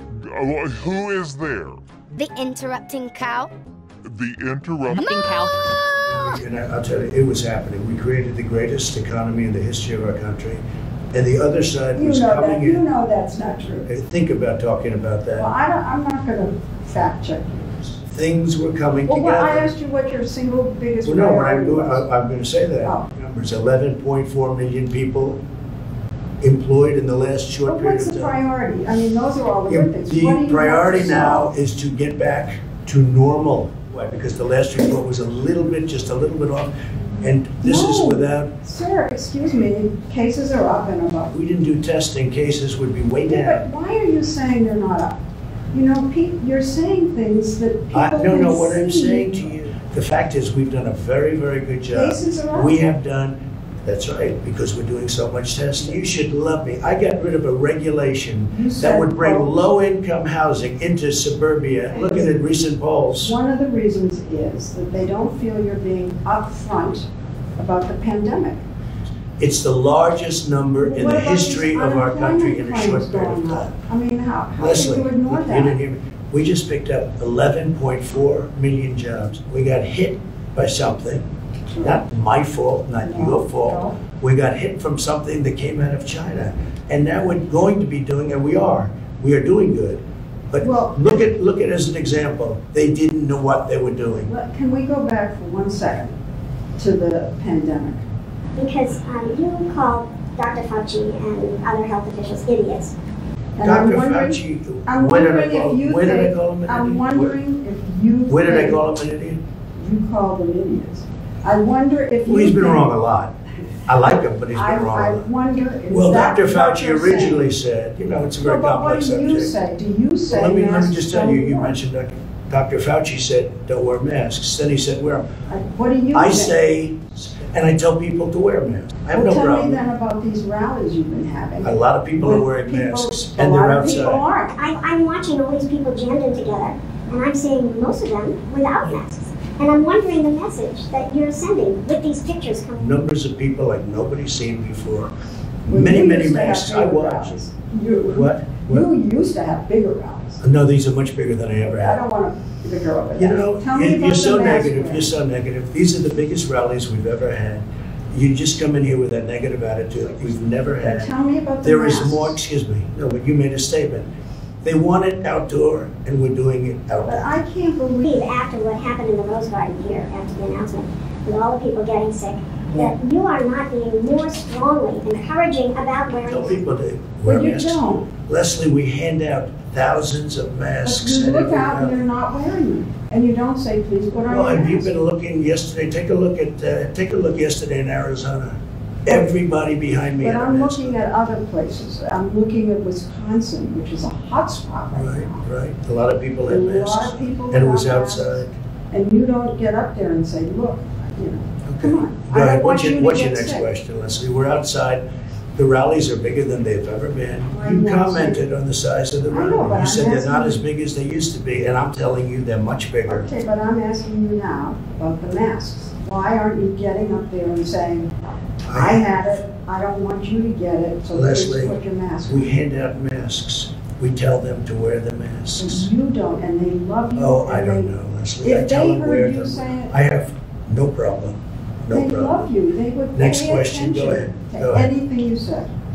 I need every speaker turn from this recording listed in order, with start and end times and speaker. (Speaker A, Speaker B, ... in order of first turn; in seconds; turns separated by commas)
Speaker A: 0.1-1.8, Speaker B: 2.1-3.5, Speaker A: 4.0-5.2, Speaker B: 4.9-6.2, Speaker C: 6.1-10.6, Speaker C: 11.1-12.8, Speaker D: 11.9-13.9, Speaker C: 13.9-15.5, Speaker D: 15.4-18.0, Speaker C: 18.1-19.7, Speaker D: 19.1-22.0, Speaker C: 21.0-25.4, Speaker C: 26.4-28.4, Speaker D: 27.6-31.5, Speaker C: 29.7-38.5, Speaker D: 37.6-41.3, Speaker C: 41.3-43.6, Speaker D: 43.2-45.2, Speaker D: 45.7-49.5, Speaker C: 47.9-63.4, Speaker D: 51.9-52.8, Speaker D: 58.5-59.7, Speaker D: 61.9-62.3, Speaker D: 63.2-68.6, Speaker C: 69.4-73.8, Speaker D: 70.8-75.8, Speaker C: 74.6-81.2, Speaker D: 81.7-82.0, Speaker C: 81.8-94.3, Speaker D: 83.0-84.0, Speaker D: 90.6-91.2, Speaker D: 94.2-96.2, Speaker D: 96.8-98.0, Speaker E: 98.5-102.9, Speaker D: 103.5-108.8, Speaker C: 103.6-107.3, Speaker C: 108.3-109.4, Speaker D: 109.8-112.9, Speaker C: 112.2-113.3, Speaker C: 113.8-115.3, Speaker D: 114.0-117.5, Speaker C: 115.9-119.5, Speaker D: 118.4-121.8, Speaker C: 120.3-125.2, Speaker D: 125.5-126.5, Speaker C: 126.1-129.8, Speaker D: 129.1-134.6, Speaker C: 131.6-134.2, Speaker E: 134.5-143.0, Speaker C: 142.8-145.1, Speaker C: 145.6-147.3, Speaker D: 145.7-150.4, Speaker C: 148.1-148.8, Speaker C: 150.4-152.0, Speaker D: 151.6-155.1, Speaker C: 153.2-161.1, Speaker D: 160.8-162.4, Speaker C: 161.6-164.1, Speaker C: 164.6-167.4, Speaker D: 167.0-168.1, Speaker E: 168.0-176.6, Speaker C: 176.2-182.0, Speaker D: 177.2-178.1, Speaker D: 180.8-184.9, Speaker C: 184.2-190.9, Speaker D: 190.2-195.4, Speaker C: 194.9-198.5, Speaker D: 196.5-203.7, Speaker C: 201.6-205.0, Speaker C: 205.5-213.3, Speaker D: 207.5-208.4, Speaker D: 209.3-210.6, Speaker D: 213.1-218.1, Speaker C: 218.7-219.3, Speaker D: 218.7-222.5, Speaker C: 221.1-225.9, Speaker D: 225.6-229.9, Speaker C: 227.1-232.5, Speaker D: 231.9-235.7, Speaker C: 233.1-234.9